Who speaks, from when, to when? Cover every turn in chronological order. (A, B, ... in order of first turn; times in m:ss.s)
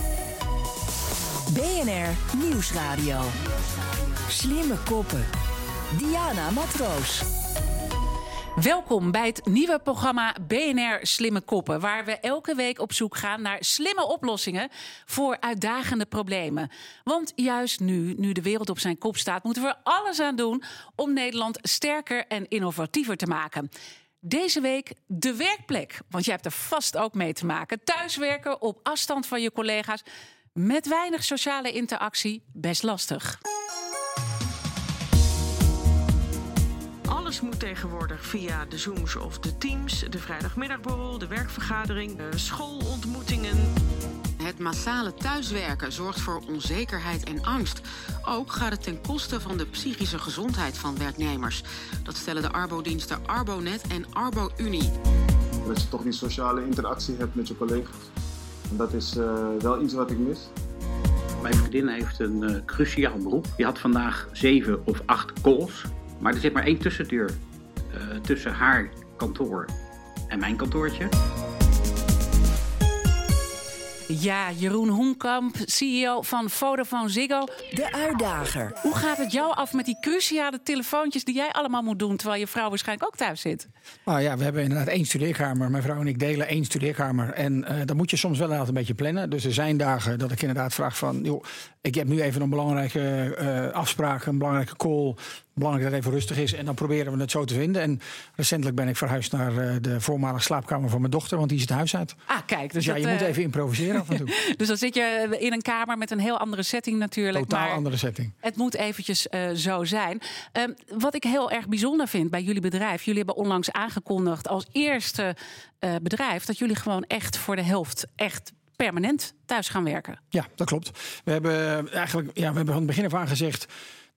0:01.5-0:03.3 A
0:04.3-0:05.3 A
0:05.9-0:07.3 A
0:08.6-0:23.7 B
0:24.2-0:30.0 B
0:30.6-0:33.4 B
0:37.1-0:43.7 C
0:44.4-0:55.0 D
0:55.6-0:58.1 E
0:58.7-1:00.5 E
1:01.4-1:09.7 F
1:10.3-1:11.1 F
1:14.1-1:17.5 B
1:17.7-1:18.8 A
1:18.8-1:23.7 B
1:24.1-1:42.2 G
1:42.3-1:43.3 B
1:42.8-1:44.3 G
1:44.0-1:47.8 B
1:47.3-1:48.3 G
1:48.4-2:00.2 B
2:00.3-2:03.7 G